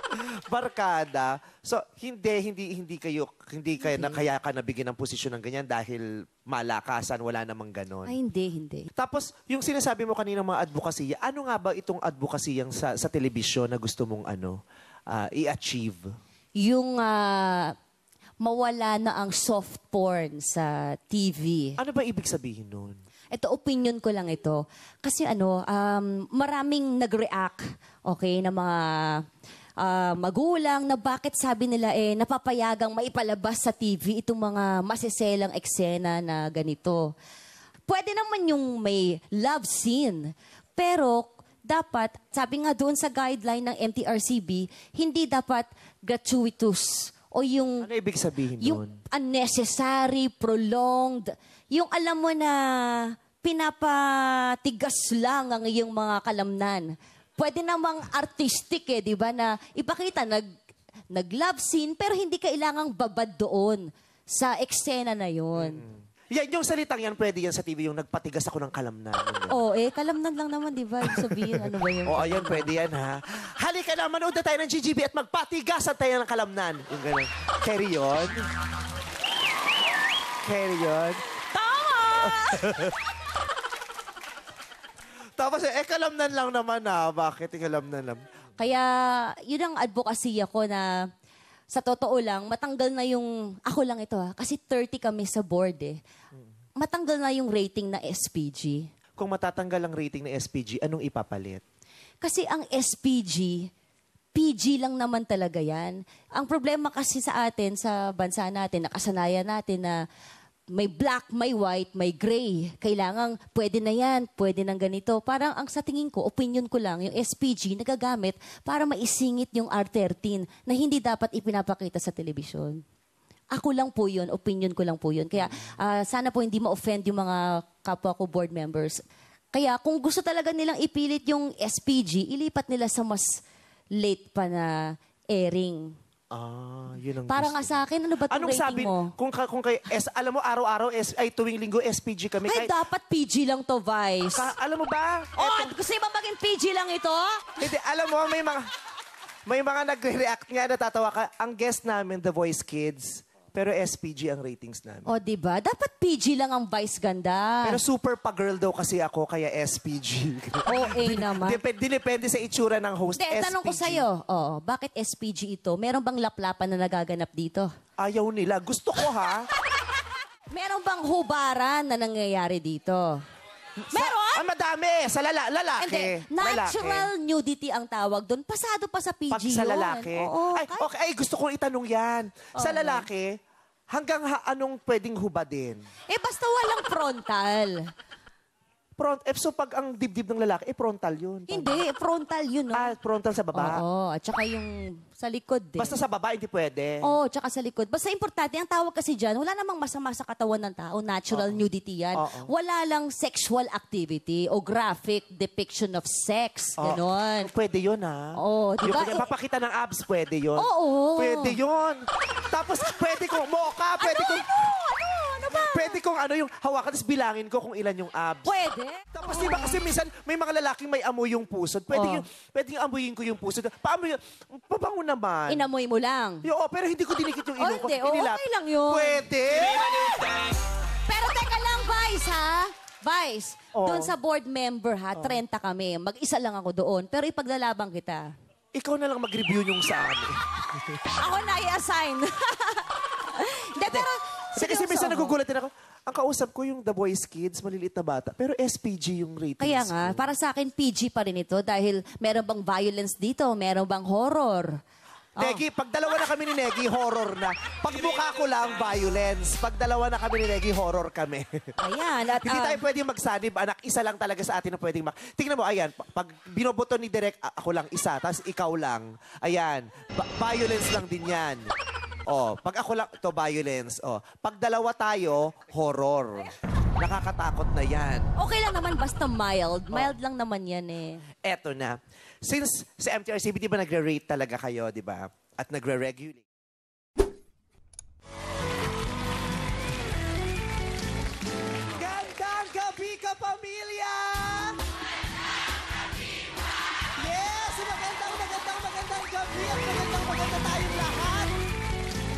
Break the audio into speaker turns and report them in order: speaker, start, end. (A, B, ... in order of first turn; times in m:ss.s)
0:00.5-0:08.1 A
0:03.8-0:04.2 B
0:08.0-0:08.9 B
0:09.0-0:14.6 A
0:15.1-0:16.0 A
0:16.6-0:17.7 B
0:18.4-0:21.8 B
0:21.8-0:23.0 A
0:23.3-0:29.2 B
0:29.8-0:37.1 B
0:37.9-0:47.9 B
0:47.8-0:49.0 A
0:48.6-1:00.5 B
1:01.1-1:05.8 B
1:05.6-1:09.5 A
1:09.5-1:12.7 B
1:11.1-1:18.4 A
1:20.4-1:21.2 A
1:21.5-1:22.6 B
1:22.2-1:22.9 A
1:25.4-1:28.2 A
1:28.6-1:30.9 B
1:31.7-1:36.0 B
1:36.8-1:38.9 B
1:39.2-1:41.6 A
1:42.2-1:43.7 B
1:44.3-1:50.0 B
1:50.7-2:02.8 B
2:03.5-2:09.0 B
2:05.4-2:05.7 A
2:09.5-2:13.4 B
2:13.9-2:15.9 B
2:16.3-2:17.8 A
2:17.3-2:19.1 B
2:18.3-2:22.7 A
2:22.4-2:24.5 B
2:24.3-2:25.7 A
2:25.4-2:27.6 B
2:27.6-2:28.6 A
2:29.5-2:35.1 A
2:35.1-2:37.8 B
2:37.6-2:44.0 A
2:40.7-2:41.6 B
2:43.1-2:47.7 B
2:48.0-2:49.5 A
2:50.5-2:53.2 B
2:53.8-2:57.1 A
2:53.9-2:54.4 B
2:55.8-3:00.8 B
2:59.3-3:03.3 A
3:02.6-3:03.1 B
3:03.9-3:05.8 A
3:06.1-3:07.8 B
3:09.0-3:11.8 A
3:11.5-3:12.9 B
3:12.7-3:13.8 A
3:13.5-3:16.0 B
3:15.8-3:17.1 A
3:17.0-3:27.5 B
3:21.3-3:21.6 A
3:22.1-3:22.5 A
3:26.8-3:34.5 A
3:28.4-3:29.2 B
3:30.6-3:31.6 B
3:34.0-3:36.0 B
3:35.5-3:38.5 A
3:38.4-3:39.8 B
3:39.1-3:45.7 A
3:41.9-3:42.2 B
3:45.5-3:46.4 B
3:46.4-3:50.1 A
3:47.6-3:49.2 B
3:49.9-3:50.4 B
3:51.1-3:58.3 B
3:53.7-3:54.1 A
3:58.7-4:00.3 A
4:01.1-4:05.4 B
4:03.9-4:10.3 A
4:09.6-4:14.8 B
4:15.4-4:15.6 B
4:15.4-4:21.7 A
4:21.8-4:22.8 B
4:22.4-4:31.7 A
4:32.3-4:38.3 A
4:38.4-4:41.2 B
4:41.4-4:46.4 A
4:52.0-4:54.8 A
4:57.2-5:01.5 A